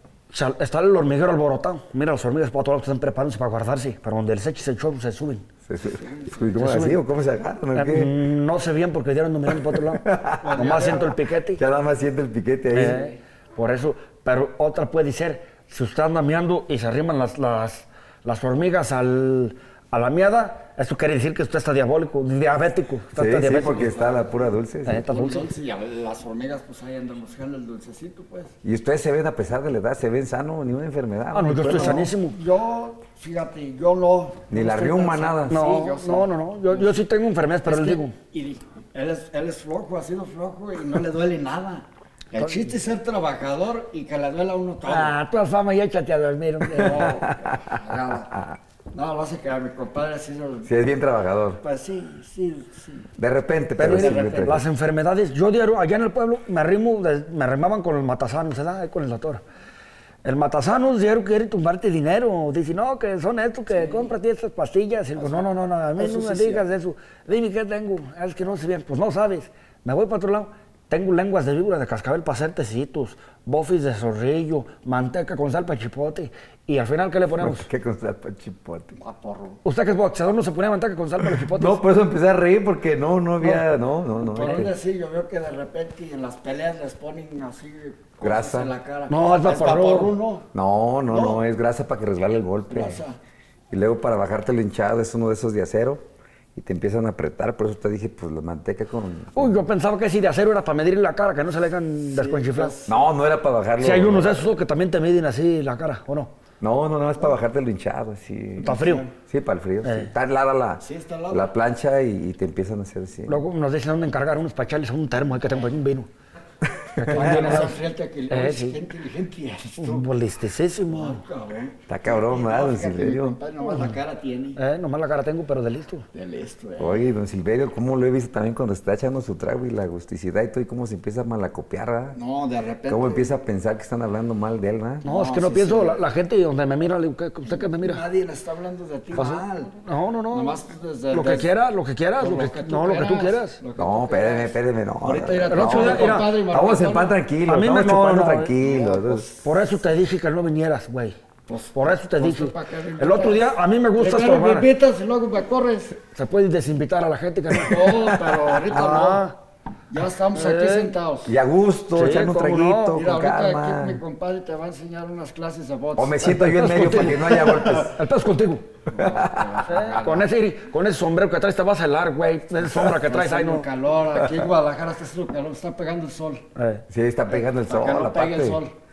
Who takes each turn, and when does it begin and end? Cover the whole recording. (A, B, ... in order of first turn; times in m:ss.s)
0:00.3-0:05.4 A
0:05.7-0:08.2 B
0:06.0-0:06.3 C
0:06.6-0:07.0 A
0:07.8-0:11.6 A
0:09.9-0:11.0 B
0:10.4-0:11.2 C
0:11.5-0:13.0 B
0:12.7-0:23.9 A
0:23.2-0:25.0 B
0:23.6-0:28.6 C
0:24.9-0:25.5 A
0:28.6-0:32.1 B
0:31.3-0:32.4 A
0:31.7-0:37.0 C
0:34.5-0:35.6 B
0:35.5-0:38.2 A
0:37.6-0:45.2 C
0:44.9-0:47.1 A
0:46.6-0:48.3 C
0:47.2-0:47.8 B
0:48.9-0:50.7 C
0:50.6-0:51.6 B
0:51.6-0:53.1 C
0:53.2-0:54.6 B
0:53.8-0:59.4 A
0:53.8-0:54.6 C
1:00.2-1:17.7 A
1:03.7-1:04.1 C
1:05.2-1:05.5 C
1:06.0-1:06.6 C
1:17.4-1:19.0 B
1:19.0-1:19.6 C
1:19.6-1:21.8 A
1:21.4-1:24.7 B
1:23.4-1:23.7 A
1:24.2-1:30.5 C
1:28.2-1:28.7 B
1:29.1-1:30.2 A
1:30.5-1:33.0 B
1:31.1-1:31.4 C
1:32.7-1:33.2 C
1:33.7-1:36.0 B
1:36.6-1:39.6 B
1:39.4-1:42.8 A
1:42.1-1:43.1 C
1:42.9-1:44.4 B
1:43.8-1:46.3 A
1:46.6-1:53.4 B
1:48.6-1:49.1 C
1:48.6-1:49.1 A
1:49.8-1:50.1 A
1:50.8-1:51.5 C
1:53.3-1:56.1 A
1:56.8-1:57.4 B
1:57.0-1:58.8 A
1:57.1-2:00.1 C
1:59.8-2:01.2 A
2:00.9-2:04.6 C
2:01.9-2:03.4 B
2:04.6-2:06.1 A
2:06.1-2:07.1 C
2:06.8-2:12.2 B
2:12.1-2:13.4 C
2:12.9-2:15.0 B
2:15.0-2:16.0 C
2:15.0-2:18.0 A
2:17.4-2:21.5 C
2:19.2-2:20.6 A
2:21.1-2:23.6 A
2:22.2-2:27.2 C
2:23.8-2:29.4 B
2:25.5-2:26.4 A
2:27.5-2:28.6 A
2:28.6-2:29.4 C
2:29.3-2:31.2 A
2:31.5-2:36.0 C
2:31.8-2:34.7 A
2:36.1-2:39.4 A
2:37.5-2:39.3 C
2:39.9-2:41.4 C
2:40.3-2:40.9 A
2:41.2-2:44.0 B
2:41.9-2:43.0 A
2:42.9-2:47.8 C
2:46.0-2:48.0 B
2:46.2-2:48.7 A
2:48.9-2:50.3 C
2:49.0-2:49.7 B
2:49.7-2:53.7 A
2:52.8-2:56.5 C
2:56.6-2:56.8 A
2:56.9-2:58.6 B
2:57.3-2:58.8 C